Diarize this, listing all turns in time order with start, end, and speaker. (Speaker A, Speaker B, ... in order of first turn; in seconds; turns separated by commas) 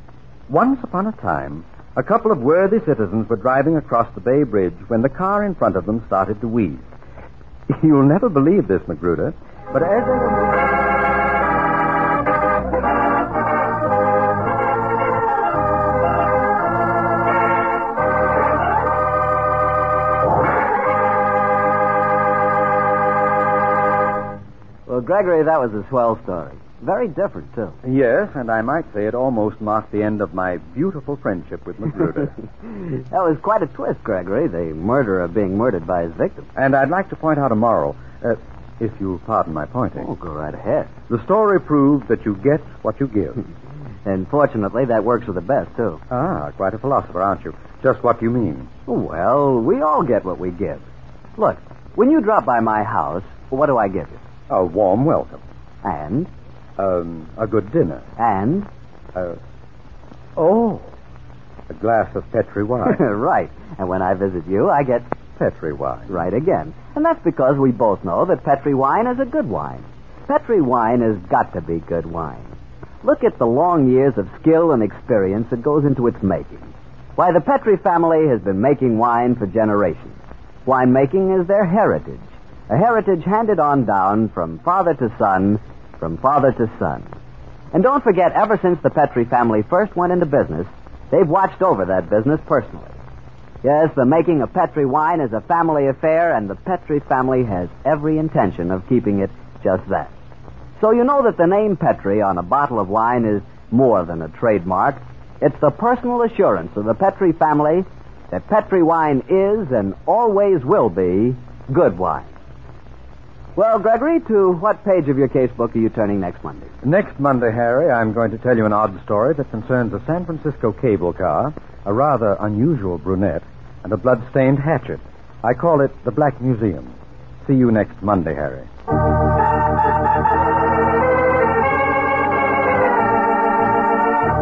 Speaker A: 0.5-6.8, Speaker A: 7.7-10.7, Speaker B: 24.9-27.8, Speaker A: 27.8-32.3, Speaker B: 32.7-36.5, Speaker A: 36.6-40.1, Speaker B: 40.0-40.9, Speaker A: 41.1-43.4, Speaker B: 44.1-46.0, Speaker A: 46.1-48.7, Speaker B: 48.9-50.8, Speaker B: 51.4-54.2, Speaker A: 54.5-55.4, Speaker B: 55.8-56.3, Speaker A: 56.8-58.0, Speaker B: 58.2-58.7, Speaker A: 60.4-60.9, Speaker A: 61.7-63.0, Speaker B: 62.9-65.1, Speaker A: 65.4-66.2, Speaker B: 66.1-87.1, Speaker B: 87.7-93.0, Speaker B: 93.6-100.1, Speaker B: 100.8-112.3, Speaker B: 113.6-116.7, Speaker A: 116.8-128.7